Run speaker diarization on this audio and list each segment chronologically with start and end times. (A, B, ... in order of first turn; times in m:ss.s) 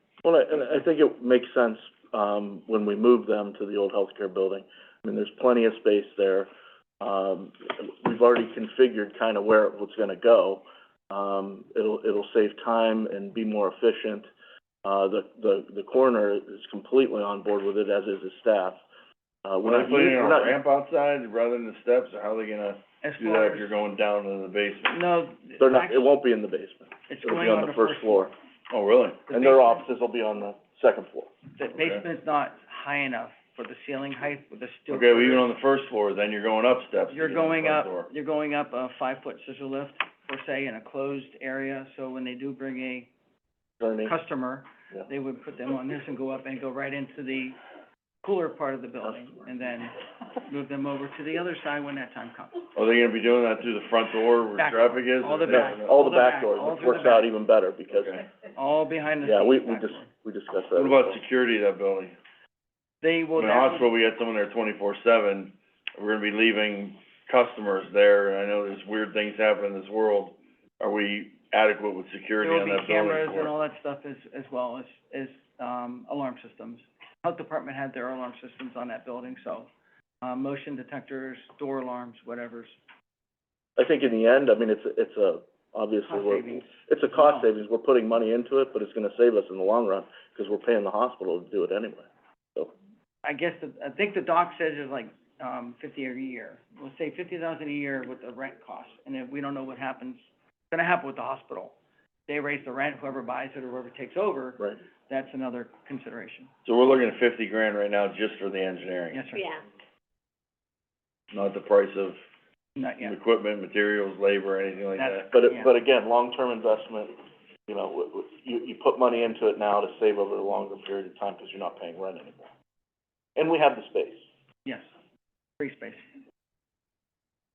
0:00.2-0:06.5 A
0:07.0-0:14.3 A
0:14.8-0:18.8 A
0:19.4-0:20.6 A
0:19.6-0:24.9 B
0:23.0-0:23.7 C
0:24.9-0:26.1 C
0:25.6-0:28.3 A
0:27.1-0:28.3 C
0:28.7-0:29.2 B
0:29.3-0:29.8 C
0:29.3-0:31.3 A
0:31.6-0:35.5 C
0:31.7-0:32.0 B
0:34.9-0:38.1 B
0:37.1-0:43.1 C
0:43.8-0:44.1 A
0:44.0-0:47.6 C
0:48.2-0:52.6 C
0:52.7-0:55.9 B
0:54.6-0:57.3 C
0:55.4-0:58.2 A
0:57.9-0:58.2 B
0:58.6-1:00.1 C
0:59.2-1:01.2 A
1:00.8-1:02.1 B
1:03.0-1:03.9 C
1:03.4-1:13.5 B
1:12.4-1:19.7 C
1:20.2-1:22.8 C
1:23.8-1:32.7 A
1:26.0-1:27.5 C
1:33.2-1:41.7 C
1:42.3-1:46.5 C
1:46.6-1:49.2 B
1:49.1-1:49.6 C
1:51.3-1:52.2 B
1:52.8-1:53.1 C
1:53.0-1:55.3 B
1:55.0-1:55.7 C
1:55.3-1:57.1 A
1:57.7-2:02.5 A
2:03.4-2:04.2 A
2:05.6-2:06.0 C